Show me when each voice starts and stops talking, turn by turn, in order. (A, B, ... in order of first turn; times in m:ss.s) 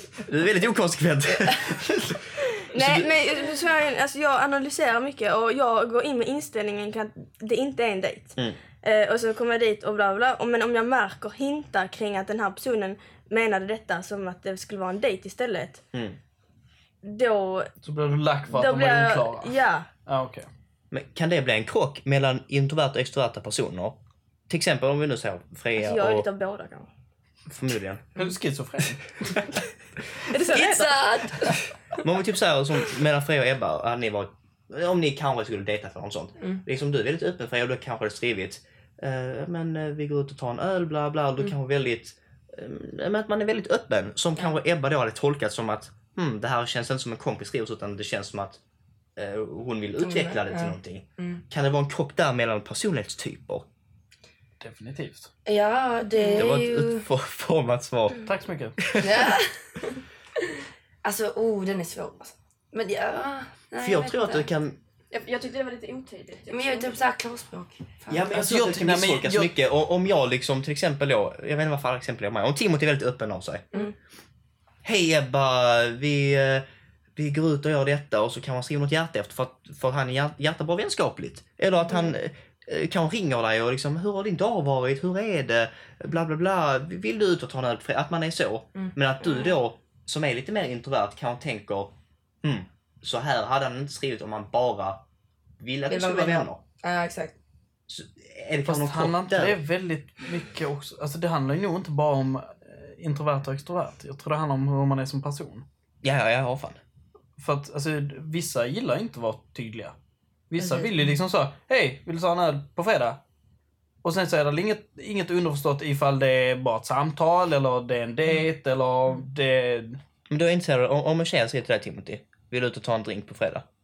0:00.2-0:03.1 A
0:02.7-0:15.8 B
0:15.9-0:16.2 A
0:17.0-0:17.7 B
0:17.8-0:20.5 C
0:18.5-0:19.9 B
0:20.9-0:24.0 A
0:24.5-0:26.2 A
0:25.8-0:26.9 B
0:27.5-0:28.2 A
0:28.2-0:29.4 C
0:30.2-0:31.1 B
0:30.5-0:32.0 D
0:32.0-0:48.6 A
0:49.2-0:53.6 A
0:50.0-0:51.4 D
0:54.6-0:55.3 C
0:55.4-0:57.0 D
0:56.3-0:58.3 A
0:58.2-0:58.8 C
0:58.8-0:59.4 A
0:59.0-0:59.9 D
1:00.4-1:04.5 D
1:03.8-1:04.8 A
1:05.1-1:06.9 B
1:06.5-1:08.4 D
1:08.1-1:13.7 A
1:08.3-1:09.5 C
1:14.8-1:16.6 A
1:17.2-1:35.0 A
1:35.6-1:36.6 A
1:35.9-1:37.3 D
1:37.9-1:39.6 A
1:38.6-1:45.6 C
1:46.0-1:46.8 A
1:47.4-1:49.9 C
1:50.5-1:53.2 C
1:50.6-1:51.1 D
1:54.0-2:00.0 C
2:00.3-2:03.6 A